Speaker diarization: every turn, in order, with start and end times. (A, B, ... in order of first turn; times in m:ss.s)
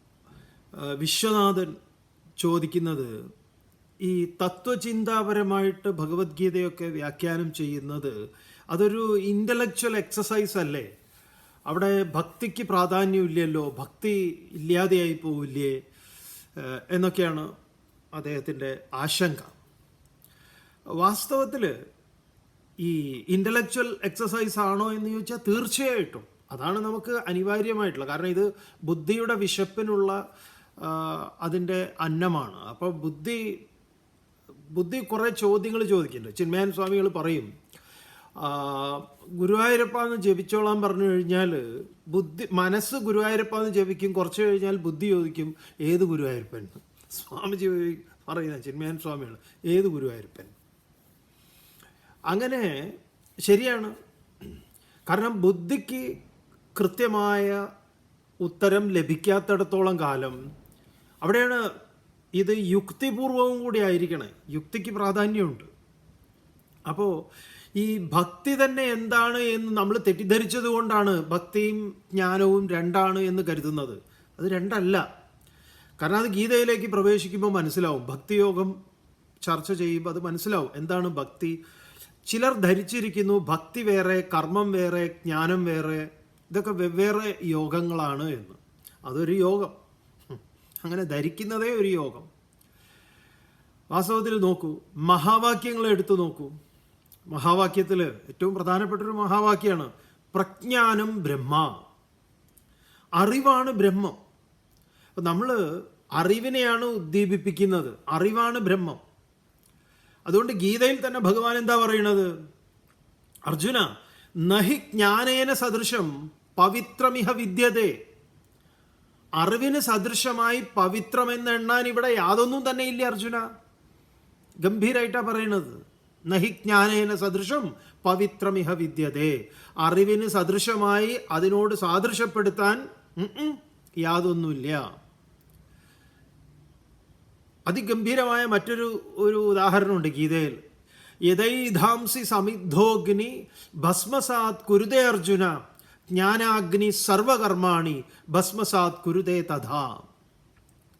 0:00.8-0:01.7 A
0:02.4-0:03.1 A
0:04.0-0:08.1 A
0:08.7-0:10.9 A
0:11.7-0:15.8 A
0:16.6-0:17.5 A
0:18.2-0:19.5 A
0:21.0-0:21.7 A
0:22.8-0:30.2 A
0:30.8-0:33.6 A
0:34.7-0:37.5 A
0:38.4-0:50.5 A
0:52.3-0:52.9 A
0:53.5-0:53.9 A
0:55.1-0:56.1 A
0:56.8-0:57.6 A
0:58.4-1:00.4 A
1:01.2-1:01.6 A
1:02.4-1:05.7 A
1:07.8-1:15.0 A
1:16.0-1:18.7 A
1:19.4-1:21.6 A
1:22.3-1:29.8 A
1:30.3-1:32.3 A
1:33.9-1:36.5 A
1:37.3-1:41.8 A
1:43.2-1:44.2 A
1:45.2-1:45.6 A
1:46.2-1:49.0 A
1:50.3-1:52.3 A
1:53.5-1:53.9 A
1:54.4-1:58.0 A
1:59.4-2:03.4 A
2:04.6-2:14.9 A
2:17.7-2:20.6 A
2:21.3-2:25.6 A
2:26.1-2:30.1 A